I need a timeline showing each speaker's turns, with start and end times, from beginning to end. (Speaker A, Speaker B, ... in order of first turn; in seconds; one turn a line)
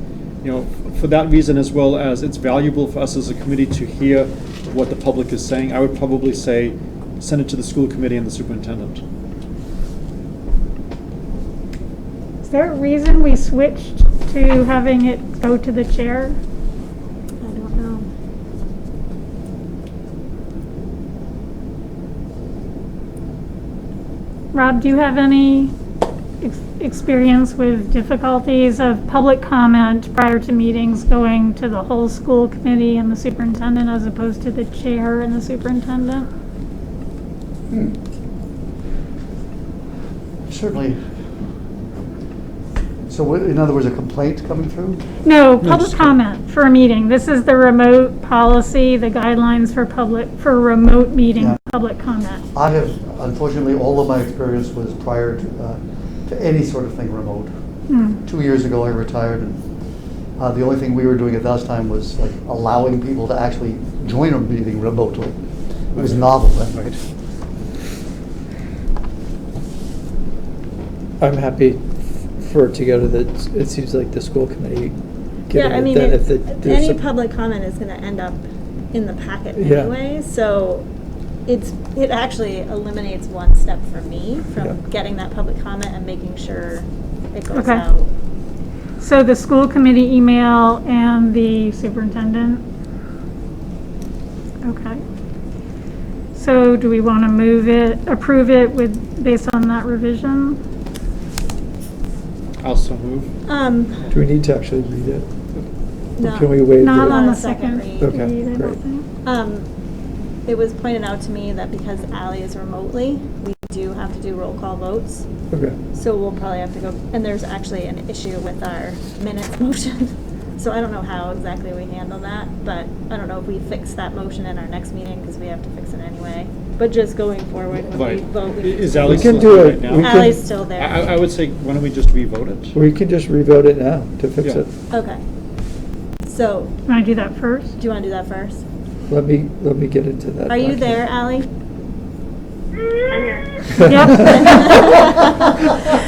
Speaker A: 0.4-9.0
Speaker B: 12.4-16.4
Speaker C: 17.4-18.1
Speaker B: 24.5-25.7
Speaker B: 26.4-36.3
Speaker D: 40.5-41.0
Speaker D: 43.1-45.0
Speaker B: 45.2-52.4
Speaker A: 45.6-46.2
Speaker D: 52.5-57.5
Speaker B: 57.9-58.2
Speaker D: 58.2-59.6
Speaker D: 60.4-65.4
Speaker A: 65.9-67.0
Speaker D: 65.9-66.9
Speaker E: 71.2-77.0
Speaker C: 75.5-80.9
Speaker E: 79.5-79.9
Speaker C: 81.5-88.1
Speaker B: 87.5-87.8
Speaker B: 89.0-92.6
Speaker B: 94.6-95.0
Speaker B: 96.3-100.6
Speaker A: 102.6-103.3
Speaker C: 103.5-104.0
Speaker E: 104.1-105.3
Speaker C: 106.2-108.1
Speaker E: 106.2-107.2
Speaker B: 106.8-109.0
Speaker E: 108.0-108.8
Speaker C: 109.2-109.7
Speaker C: 110.5-115.3
Speaker E: 115.5-115.8
Speaker C: 115.9-129.2
Speaker A: 127.7-132.7
Speaker E: 129.0-130.4
Speaker C: 130.0-131.0
Speaker E: 132.7-134.7
Speaker C: 134.9-135.2
Speaker C: 136.2-136.8
Speaker B: 136.9-137.7
Speaker C: 137.8-138.6
Speaker E: 139.1-141.1
Speaker C: 140.5-141.5
Speaker C: 142.9-145.7
Speaker B: 143.8-144.8
Speaker E: 143.8-144.6